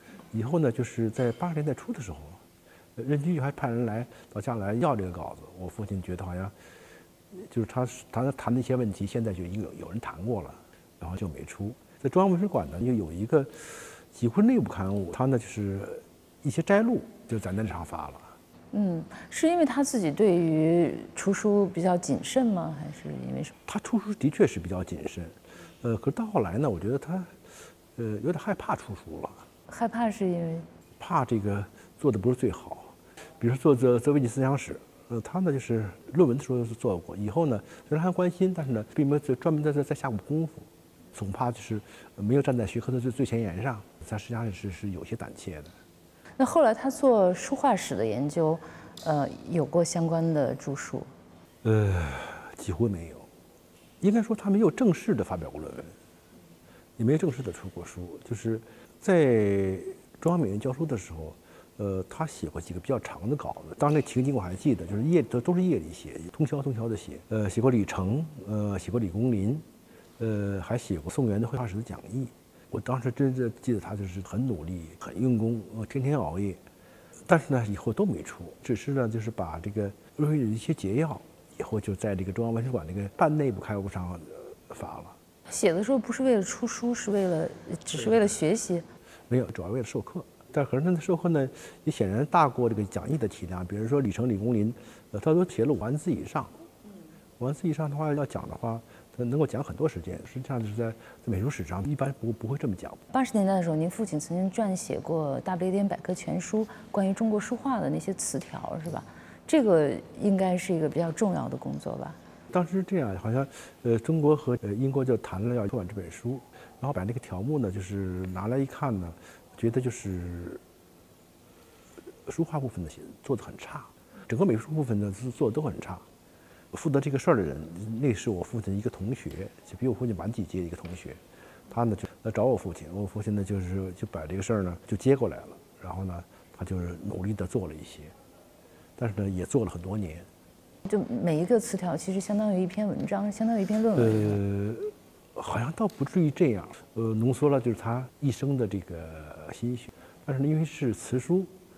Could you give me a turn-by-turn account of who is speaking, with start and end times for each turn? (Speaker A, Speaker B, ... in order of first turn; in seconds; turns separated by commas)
Speaker A: 0.3-2.4, Speaker A: 3.0-6.5, Speaker A: 7.3-18.4, Speaker B: 18.7-23.6, Speaker A: 23.7-27.4, Speaker A: 28.0-29.4, Speaker B: 29.7-30.7, Speaker A: 31.0-45.7, Speaker B: 46.4-51.1, Speaker A: 51.6-53.3, Speaker A: 54.0-56.0, Speaker A: 57.0-69.7, Speaker A: 70.2-76.6, Speaker A: 77.3-85.2, Speaker B: 85.5-88.9, Speaker A: 89.3-96.5, Speaker A: 97.4-103.0, Speaker B: 103.1-112.2, Speaker A: 112.5-120.6, Speaker A: 122.3-126.0, Speaker A: 126.7-138.1, Speaker A: 139.0-140.3, Speaker B: 140.9-144.4, Speaker A: 144.0-151.5